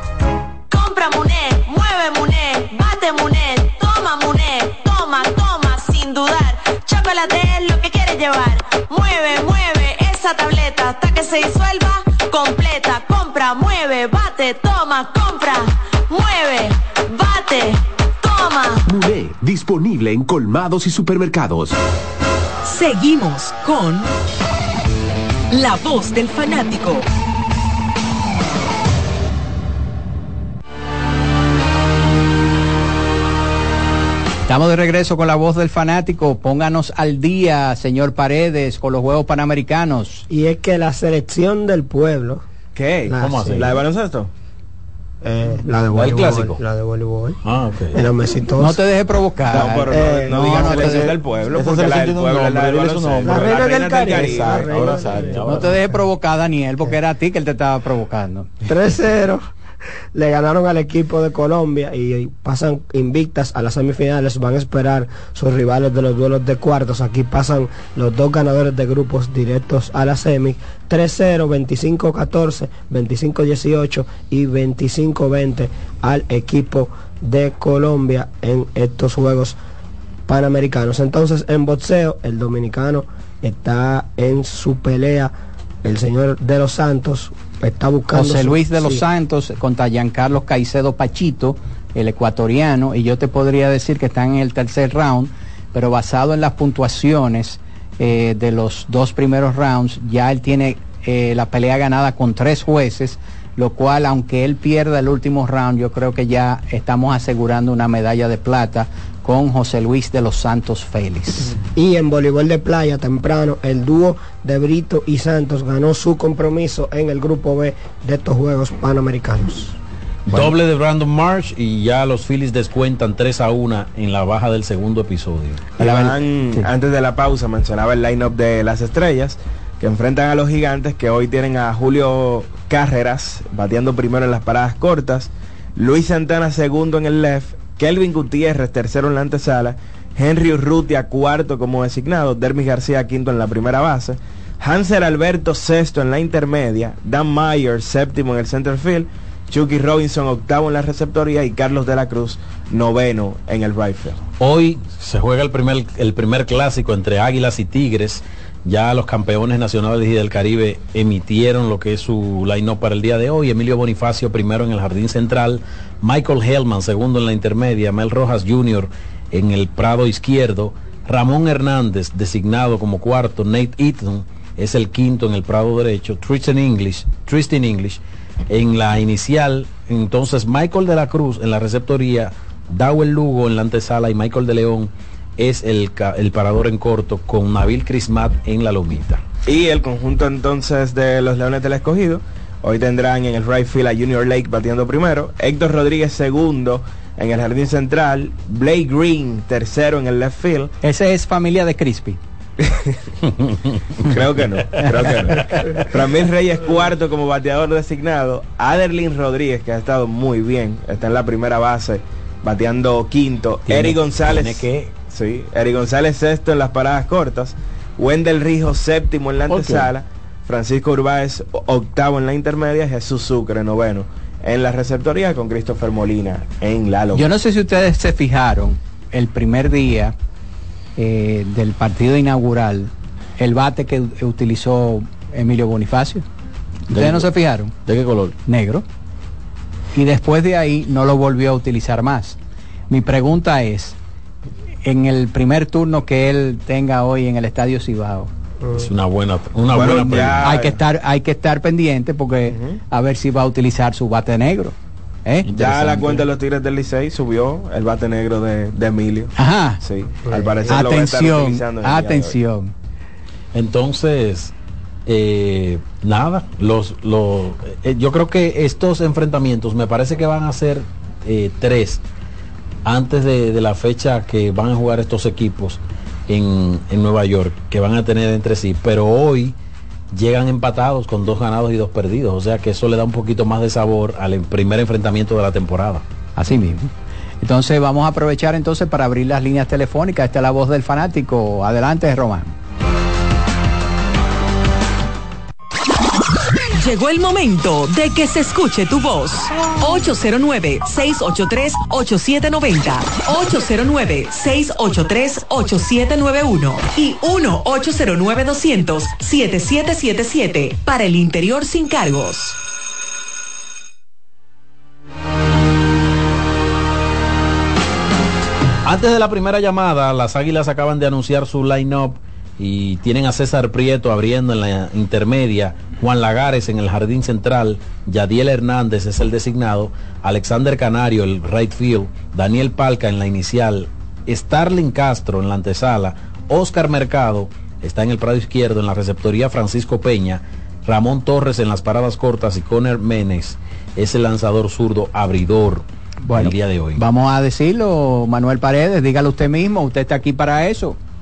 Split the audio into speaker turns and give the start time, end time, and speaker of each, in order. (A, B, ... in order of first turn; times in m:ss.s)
0:00.7-0:18.8 A
0:18.9-0:21.8 B
0:22.6-0:24.1 C
0:25.5-0:27.0 C
0:34.4-0:40.2 D
0:40.3-0:42.4 E
0:42.7-0:44.3 F
0:43.1-0:43.6 E
0:43.2-0:43.8 G
0:45.2-0:47.4 E
0:45.9-0:46.6 G
0:47.4-0:48.0 G
0:47.9-0:48.8 E
0:48.6-0:51.0 D
0:49.5-0:55.0 F
0:49.9-0:50.8 E
0:50.6-0:55.7 H
0:53.2-0:55.9 E
0:55.4-0:58.5 D
0:58.7-0:59.4 E
1:00.1-1:19.6 E
1:20.3-1:25.3 E
1:25.8-1:29.0 E
1:28.1-1:51.5 D
1:51.7-1:59.7 E
2:00.3-2:05.6 G
2:05.8-2:06.6 D
2:05.8-2:34.2 F
2:34.4-3:09.2 G
3:09.4-3:20.7 F
3:20.8-3:22.2 D
3:22.6-3:23.0 F
3:24.0-3:47.3 F
3:33.7-3:34.9 G
3:39.5-3:39.9 H
3:47.1-3:50.1 D
3:51.0-3:56.2 D
3:56.9-3:57.7 D
3:56.9-3:57.3 H
3:57.8-3:58.4 H
3:58.5-3:58.8 D
3:59.9-4:02.4 D
4:02.9-4:04.0 D
4:04.8-4:08.3 D
4:08.7-4:10.4 G
4:09.7-4:10.8 F
4:10.0-4:14.7 D
4:12.5-4:12.8 F
4:15.2-4:16.2 D
4:15.5-4:22.4 F
4:19.4-4:19.8 D
4:20.3-4:20.7 E
4:20.7-4:22.7 D
4:23.5-4:24.5 G
4:25.0-4:32.0 G
4:32.8-4:39.5 G
4:40.1-4:46.0 G
4:46.4-4:46.9 D
4:47.4-4:52.5 D
4:56.8-5:12.6 C
5:18.8-5:47.0 G
5:46.2-5:51.0 D